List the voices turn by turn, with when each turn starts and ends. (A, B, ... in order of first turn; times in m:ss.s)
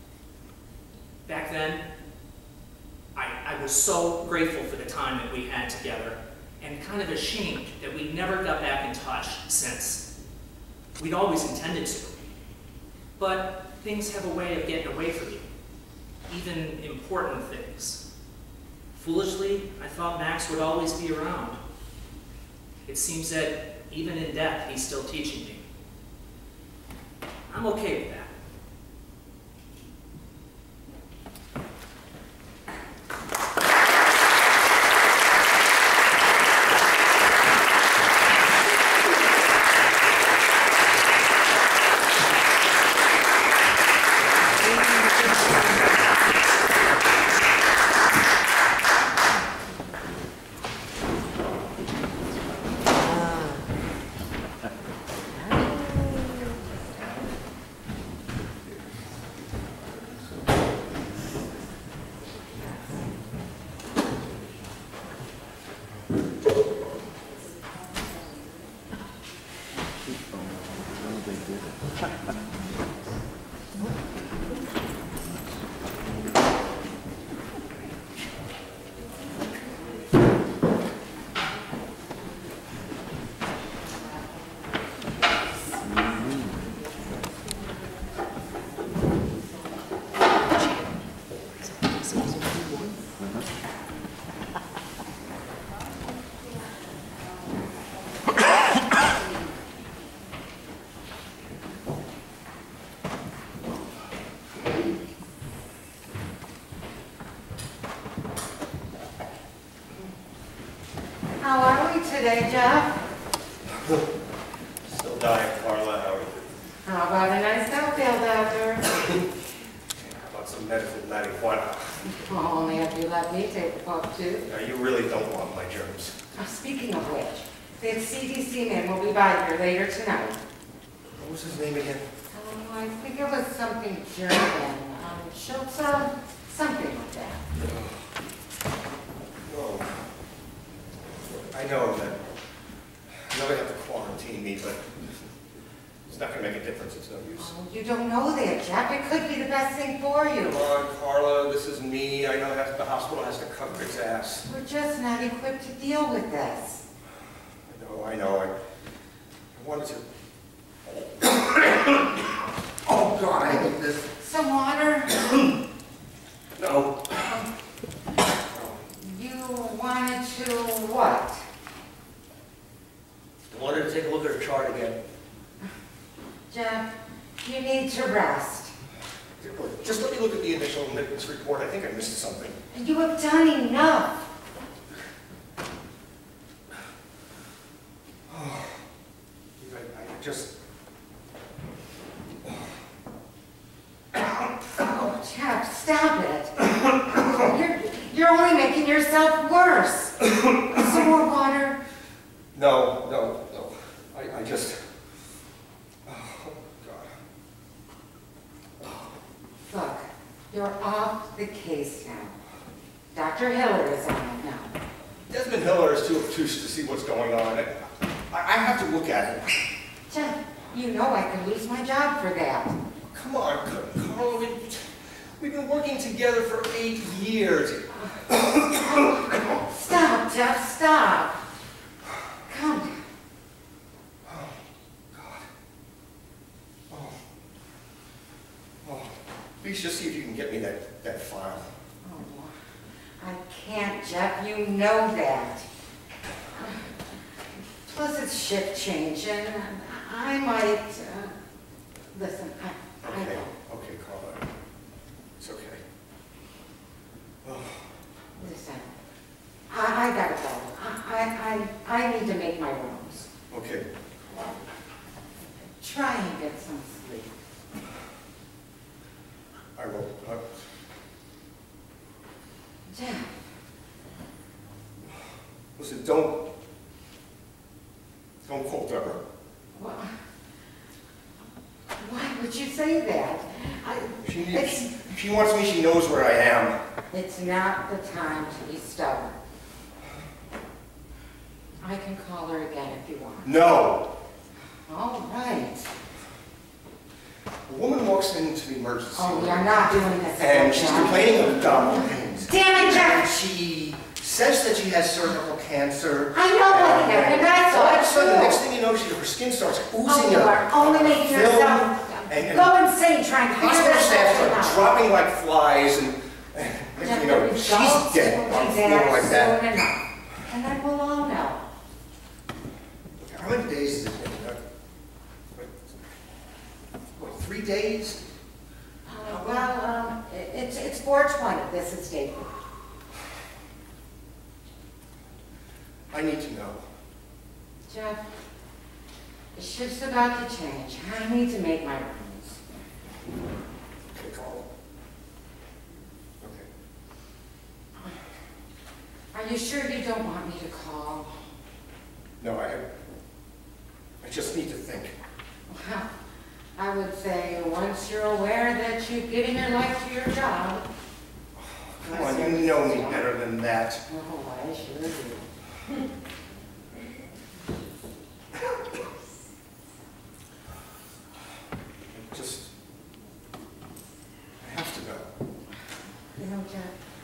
0:01.2-0:01.8 A
0:03.2-0:10.0 A
0:11.0-0:12.3 A
0:13.2-0:15.5 A
0:16.3-0:18.0 A
0:18.9-0:21.6 A
0:22.9-0:25.6 A
0:27.5-0:28.3 A
1:51.4-1:53.0 B
1:54.9-1:56.5 C
1:56.8-1:58.9 B
2:00.0-2:02.0 C
2:02.0-2:04.5 B
2:04.5-2:06.2 C
2:06.4-2:10.4 B
2:11.2-2:12.1 C
2:12.3-2:17.5 B
2:17.6-2:18.0 C
2:19.5-2:19.9 C
2:21.2-2:22.2 C
2:23.3-2:24.9 C
2:26.1-2:27.5 C
2:27.4-2:30.6 B
2:30.4-2:34.4 C
2:34.5-2:36.8 B
2:37.7-2:38.5 C
2:39.5-2:40.0 C
2:40.9-2:44.1 C
2:43.4-2:45.1 B
2:46.6-2:47.4 C
2:48.5-2:48.8 C
2:49.0-2:51.4 B
2:53.5-2:55.0 C
2:56.5-2:56.9 B
2:57.4-2:58.7 B
2:59.4-3:02.6 C
3:02.7-3:04.2 B
3:08.3-3:08.8 C
3:09.6-3:10.5 C
3:12.4-3:12.7 C
3:14.8-3:20.2 B
3:20.2-3:20.8 C
3:20.7-3:21.8 B
3:22.5-3:24.8 C
3:26.0-3:27.1 C
3:28.8-3:29.2 C
3:29.7-3:32.4 B
3:33.1-3:34.7 B
3:35.2-3:39.6 C
3:40.1-3:42.8 B
3:43.1-3:49.6 C
3:47.9-3:48.2 B
3:48.9-3:51.5 B
3:52.5-3:53.0 B
3:54.2-3:54.6 C
3:55.1-3:55.5 C
3:56.9-3:57.2 C
3:58.8-4:01.7 C
4:02.0-4:02.6 B
4:03.2-4:05.7 B
4:07.9-4:11.3 B
4:12.1-4:13.5 B
4:13.0-4:14.5 C
4:15.4-4:15.8 C
4:17.4-4:17.9 C
4:18.4-4:18.9 B
4:19.7-4:23.3 B
4:23.5-4:23.9 C
4:25.6-4:27.3 B
4:29.8-4:30.6 C
4:32.9-4:33.4 B
4:35.8-4:36.4 C
4:38.4-4:39.2 C
4:39.8-4:40.1 B
4:42.0-4:44.9 B
4:44.2-4:46.8 C
4:47.1-4:49.4 B
4:51.8-4:53.5 B
4:53.4-4:54.1 C
4:54.9-4:55.9 B
4:57.7-5:12.7 C
4:59.2-5:01.7 B
5:02.4-5:03.4 B
5:06.3-5:08.6 B
5:10.0-5:15.0 B
5:13.6-5:19.6 C
5:17.0-5:21.6 B
5:23.2-5:24.6 C
5:25.5-5:25.9 C
5:27.2-5:28.2 C
5:29.1-5:32.5 B
5:36.1-5:36.8 C
5:37.9-5:38.2 B
5:39.5-5:42.6 B
5:44.1-5:44.7 C
5:46.4-5:46.7 C
5:49.3-5:51.3 B
5:52.4-5:52.8 C
5:54.2-5:55.1 C
5:55.7-5:56.1 B
5:56.8-6:00.8 B
6:01.6-6:04.0 C
6:02.0-6:03.2 B
6:04.1-6:05.5 B
6:12.1-6:12.7 C
6:14.6-6:15.3 C
6:16.4-6:16.9 B